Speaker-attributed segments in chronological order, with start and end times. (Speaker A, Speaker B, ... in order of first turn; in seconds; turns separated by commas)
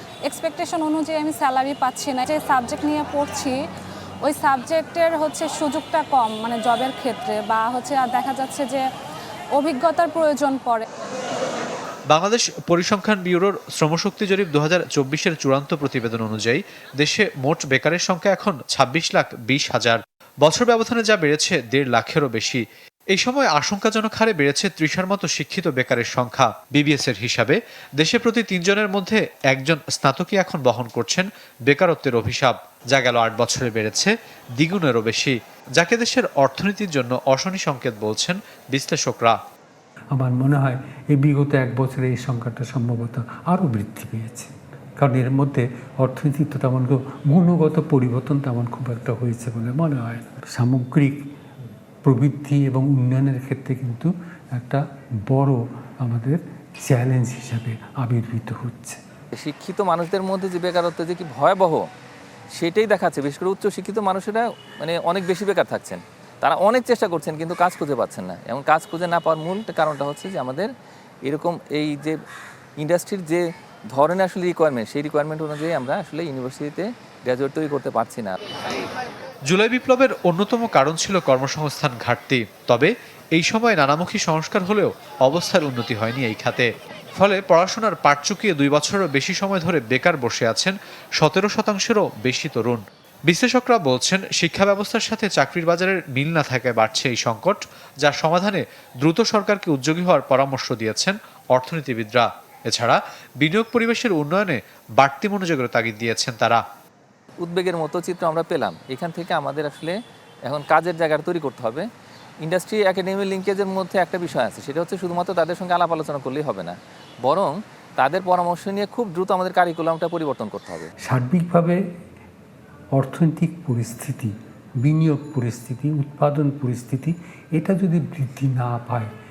Speaker A: 0.3-3.5, Speaker A: 4.2-8.8, Speaker A: 9.6-10.8, Speaker B: 12.1-39.4, Speaker C: 40.1-51.2, Speaker C: 52.0-59.0, Speaker D: 59.4-61.9, Speaker D: 62.6-70.7, Speaker D: 71.3-72.2, Speaker D: 72.8-78.3, Speaker B: 79.5-106.6, Speaker D: 107.4-111.9, Speaker D: 112.4-120.9, Speaker C: 121.0-121.8, Speaker C: 122.9-129.1